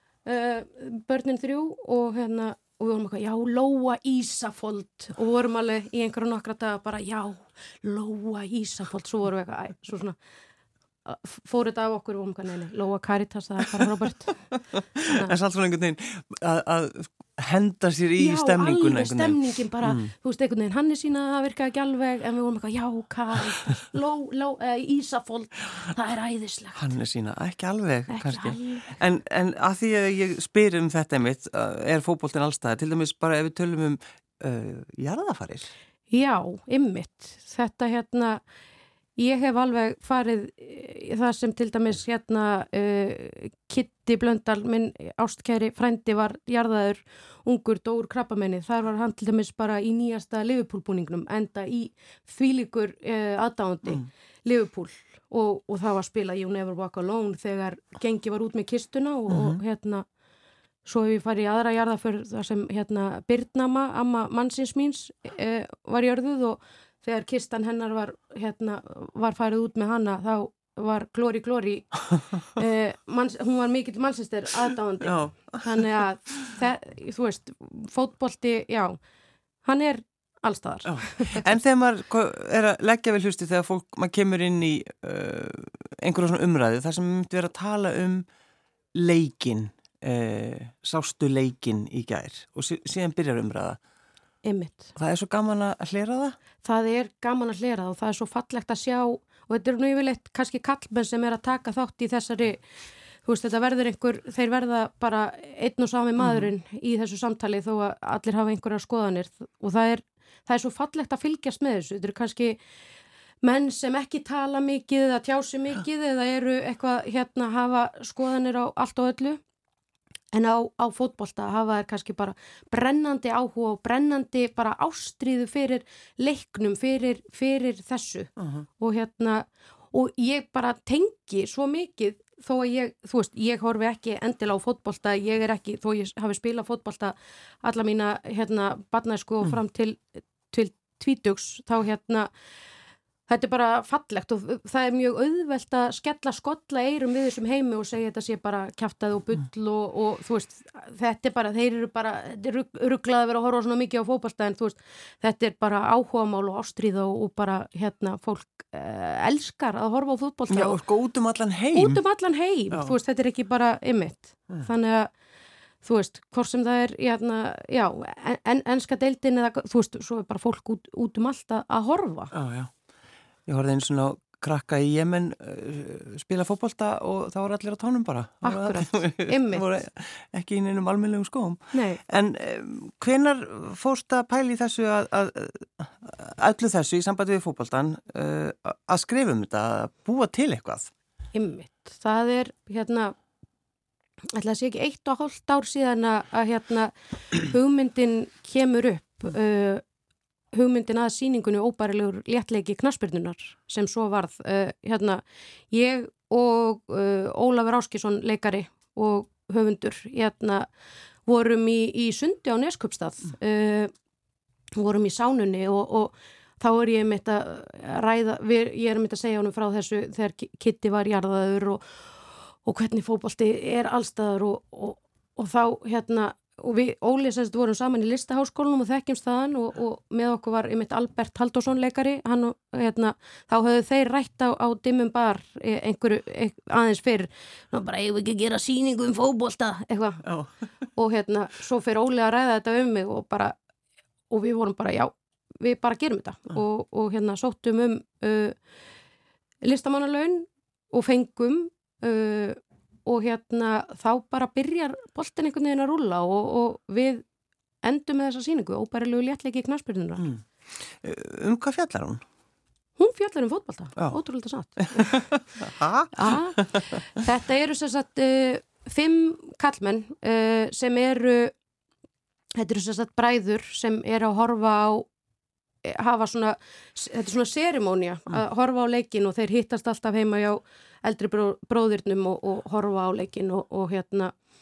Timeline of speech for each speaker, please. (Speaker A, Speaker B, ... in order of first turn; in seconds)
Speaker A: 0.2-10.2, 11.1-14.4, 18.2-26.8, 28.1-28.9, 36.1-38.4, 39.2-60.0, 60.9-79.0, 79.6-81.5, 94.4-94.9, 96.6-102.6, 103.2-112.6, 113.4-119.4, 120.3-142.3, 143.3-160.8, 161.7-165.1, 165.8-172.3, 178.4-179.8, 181.7-182.0, 191.3-193.2, 194.3-199.8, 200.5-210.7, 211.3-213.9, 214.8-221.8, 222.6-240.2, 240.9-243.6, 244.3-248.6, 249.6-257.2, 257.8-260.3, 263.0-265.4, 266.1-271.6, 272.6-275.1, 275.9-284.3
Speaker B: 14.7-20.1, 26.8-35.7, 59.3-59.6, 75.0-75.8, 80.8-88.3, 88.9-93.8, 95.0-96.4, 106.2-106.5, 128.4-128.7, 160.5-162.0, 172.3-172.7, 173.5-190.9, 240.2-240.5, 260.2-262.2, 264.8-267.0